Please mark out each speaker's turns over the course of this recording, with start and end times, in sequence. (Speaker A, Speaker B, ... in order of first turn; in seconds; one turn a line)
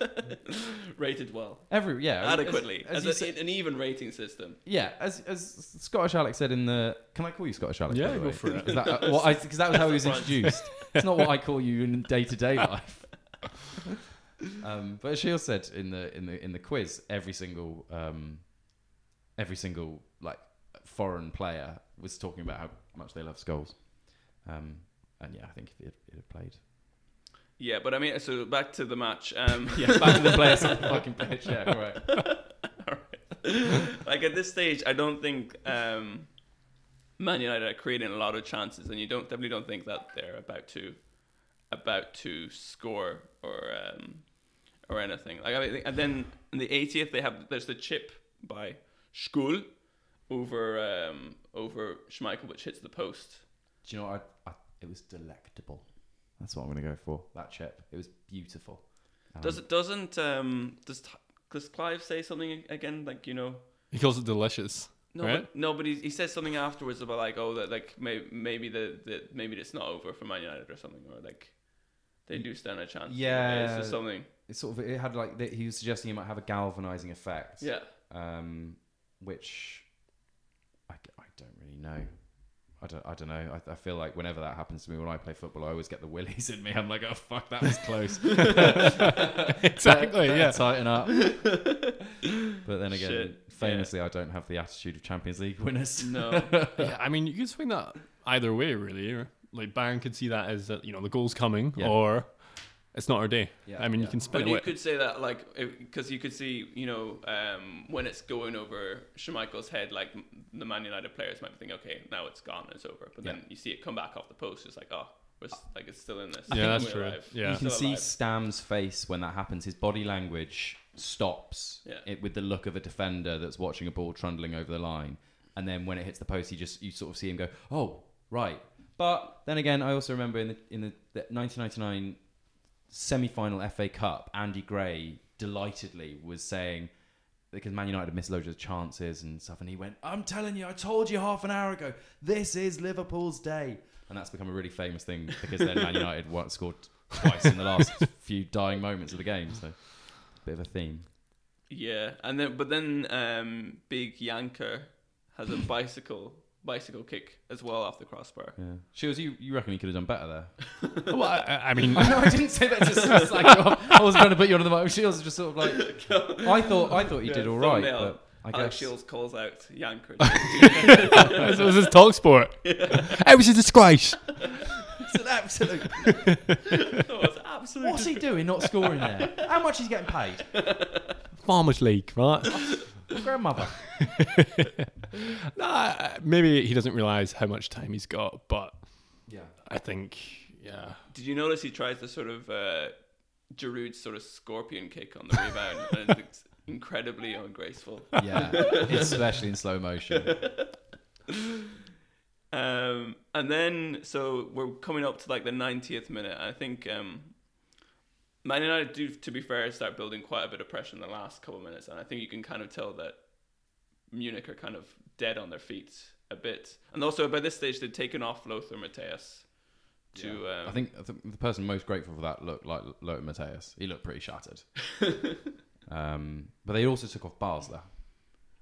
Speaker A: 0.9-4.6
Speaker B: 1.7-3.4
Speaker B: 4.6-13.4
Speaker C: 7.9-9.1
Speaker A: 8.5-10.7
Speaker C: 10.7-11.0
Speaker B: 14.6-26.6
Speaker A: 27.6-31.0
Speaker B: 29.7-32.3
Speaker A: 32.1-36.3
Speaker A: 37.2-53.4
Speaker B: 53.8-59.6
Speaker A: 59.4-63.6
Speaker C: 63.9-65.5
Speaker A: 65.1-74.3
Speaker B: 72.3-79.9
Speaker A: 77.6-77.9
Speaker B: 80.9-91.8
Speaker C: 88.6-90.7
Speaker A: 91.1-91.9
Speaker B: 92.5-96.9
Speaker A: 92.9-93.9
Speaker A: 96.0-96.6
Speaker C: 96.8-104.7
Speaker B: 101.7-102.3
Speaker B: 103.6-104.2
Speaker A: 104.3-118.1
Speaker C: 116.5-117.6
Speaker B: 116.5-132.3
Speaker B: 132.9-151.1
Speaker A: 151.7-158.6
Speaker B: 158.6-160.9
Speaker C: 161.1-162.8
Speaker B: 161.9-168.9
Speaker A: 165.6-171.9
Speaker C: 170.3-174.5
Speaker B: 171.1-171.5
Speaker A: 172.6-173.2
Speaker B: 175.0-176.5
Speaker A: 177.0-179.5
Speaker B: 177.8-180.6
Speaker A: 180.5-181.1
Speaker C: 181.4-183.0
Speaker B: 182.5-184.0
Speaker C: 183.9-191.0
Speaker B: 189.2-189.5
Speaker A: 191.1-192.9
Speaker A: 193.5-199.2
Speaker B: 198.2-200.5
Speaker A: 200.2-200.7
Speaker A: 202.5-207.8
Speaker A: 208.4-220.8
Speaker B: 220.1-224.9
Speaker B: 225.8-228.0